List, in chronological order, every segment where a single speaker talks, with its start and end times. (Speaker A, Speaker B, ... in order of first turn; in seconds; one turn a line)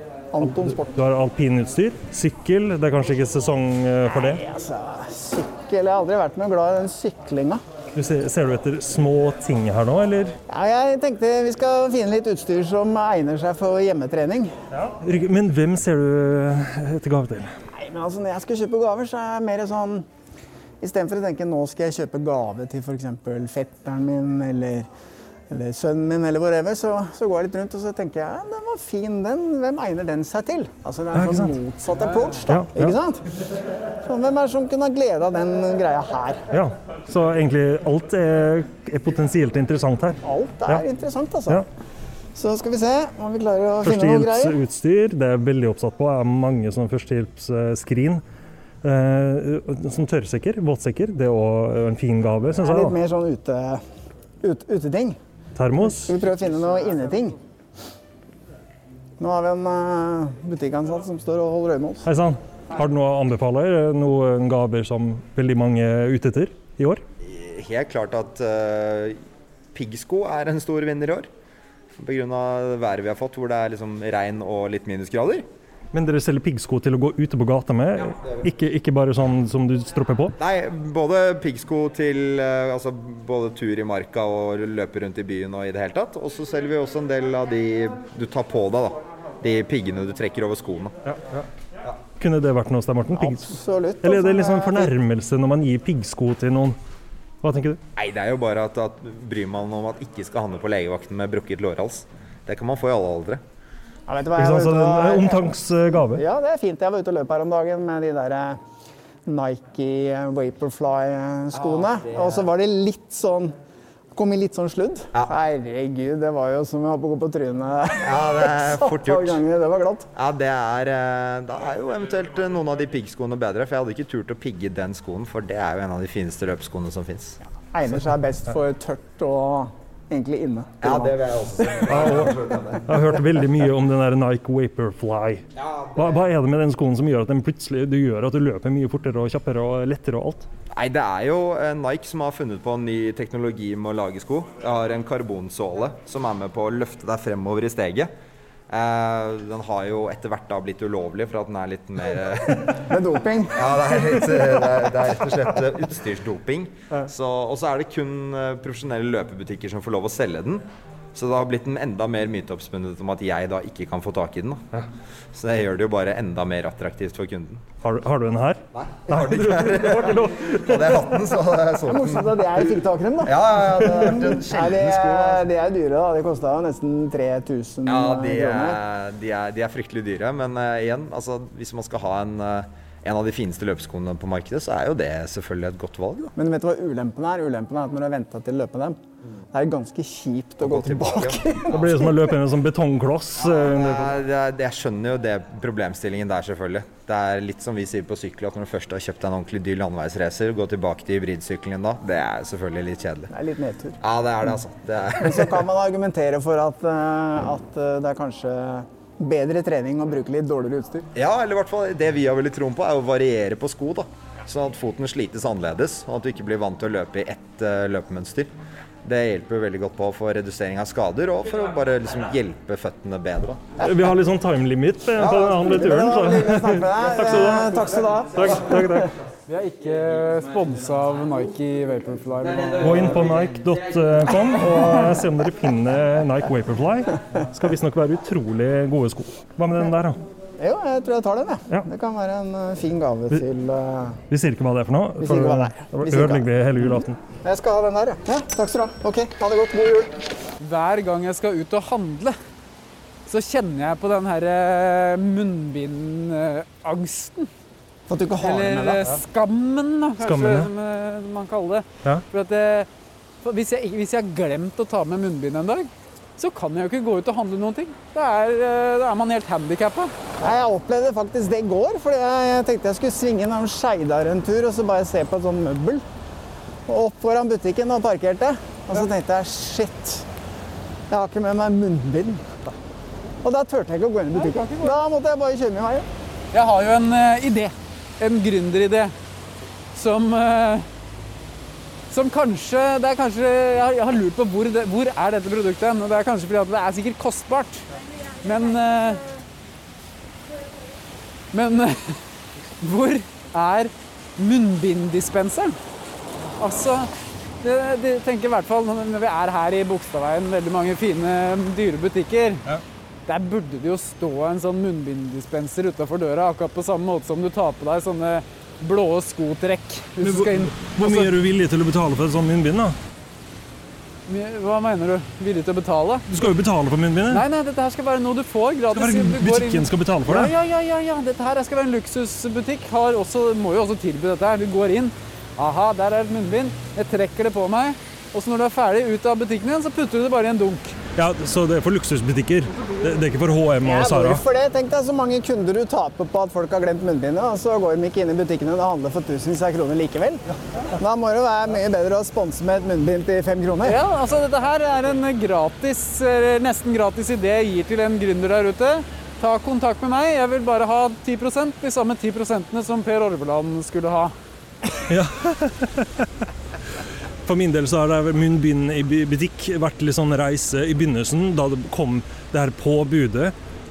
Speaker A: 0.3-0.9
Speaker B: 0.8-4.4
Speaker A: 4.1-7.6
Speaker B: 7.9-10.3
Speaker A: 10.5-14.5
Speaker B: 14.7-17.5
Speaker A: 17.7-20.1
Speaker A: 20.8-24.9
Speaker A: 25.5-33.2
Speaker B: 31.1-31.5
Speaker C: 32.1-32.3
Speaker B: 32.5-32.9
Speaker A: 34.0-36.4
Speaker B: 36.5-40.8
Speaker A: 40.2-41.6
Speaker A: 42.3-44.6
Speaker B: 43.8-48.2
Speaker B: 48.8-53.0
Speaker A: 52.6-53.8
Speaker A: 54.4-55.2
Speaker B: 55.5-56.1
Speaker A: 55.9-57.4
Speaker A: 59.2-62.0
Speaker B: 62.0-67.0
Speaker D: 67.2-69.2
Speaker D: 69.7-71.3
Speaker D: 72.0-75.5
Speaker B: 75.9-80.3
Speaker D: 80.4-91.0
Speaker B: 91.1-91.5
Speaker B: 92.2-96.8
Speaker A: 93.1-94.9
Speaker B: 97.4-97.8
Speaker D: 98.0-103.4
Speaker A: 104.1-105.5
Speaker B: 104.4-106.2
Speaker A: 106.1-108.6
Speaker A: 109.2-113.5
Speaker D: 111.5-112.5
Speaker A: 114.1-120.1
Speaker D: 118.0-119.4
Speaker D: 120.1-127.4
Speaker A: 127.7-131.2
Speaker D: 130.8-132.8
Speaker B: 131.8-132.3
Speaker B: 132.8-140.5
Speaker D: 135.6-135.9
Speaker D: 140.7-148.1
Speaker D: 148.7-152.9
Speaker A: 152.8-153.7
Speaker D: 153.5-164.6
Speaker D: 165.3-167.6
Speaker B: 167.8-171.0
Speaker D: 168.7-172.4
Speaker A: 171.8-178.8
Speaker D: 173.2-175.4
Speaker D: 177.8-186.3
Speaker A: 186.3-189.0
Speaker A: 189.5-192.0
Speaker D: 190.6-191.8
Speaker B: 191.7-194.1
Speaker D: 193.4-203.3
Speaker A: 203.3-204.0
Speaker D: 204.0-205.7
Speaker A: 205.2-211.1
Speaker D: 211.2-218.5
Speaker D: 219.0-223.6
Speaker B: 223.8-227.7
Speaker A: 225.2-229.1
Speaker B: 228.3-229.1
Speaker C: 229.5-233.2
Speaker B: 232.8-240.2
Speaker A: 240.6-244.2
Speaker B: 244.3-247.2
Speaker A: 245.2-250.1
Speaker C: 250.6-252.3
Speaker C: 253.2-257.5
Speaker A: 258.1-259.0
Speaker C: 258.4-262.9
Speaker B: 260.2-260.7
Speaker C: 263.4-270.1
Speaker A: 270.4-276.0
Speaker A: 276.9-280.2
Speaker A: 281.1-282.5
Speaker A: 283.4-286.1
Speaker C: 284.3-284.9
Speaker C: 286.5-289.1
Speaker C: 289.9-290.9
Speaker C: 292.1-297.9
Speaker C: 298.4-299.2
Speaker C: 301.5-302.2
Speaker C: 302.8-305.8
Speaker C: 306.6-312.6
Speaker C: 313.2-321.3
Speaker B: 320.2-322.9
Speaker C: 324.2-326.3
Speaker B: 326.3-327.4
Speaker C: 327.3-340.9
Speaker B: 328.9-330.5
Speaker B: 341.1-344.4
Speaker A: 343.8-354.0
Speaker C: 353.8-364.3
Speaker B: 365.1-366.2
Speaker B: 367.4-373.5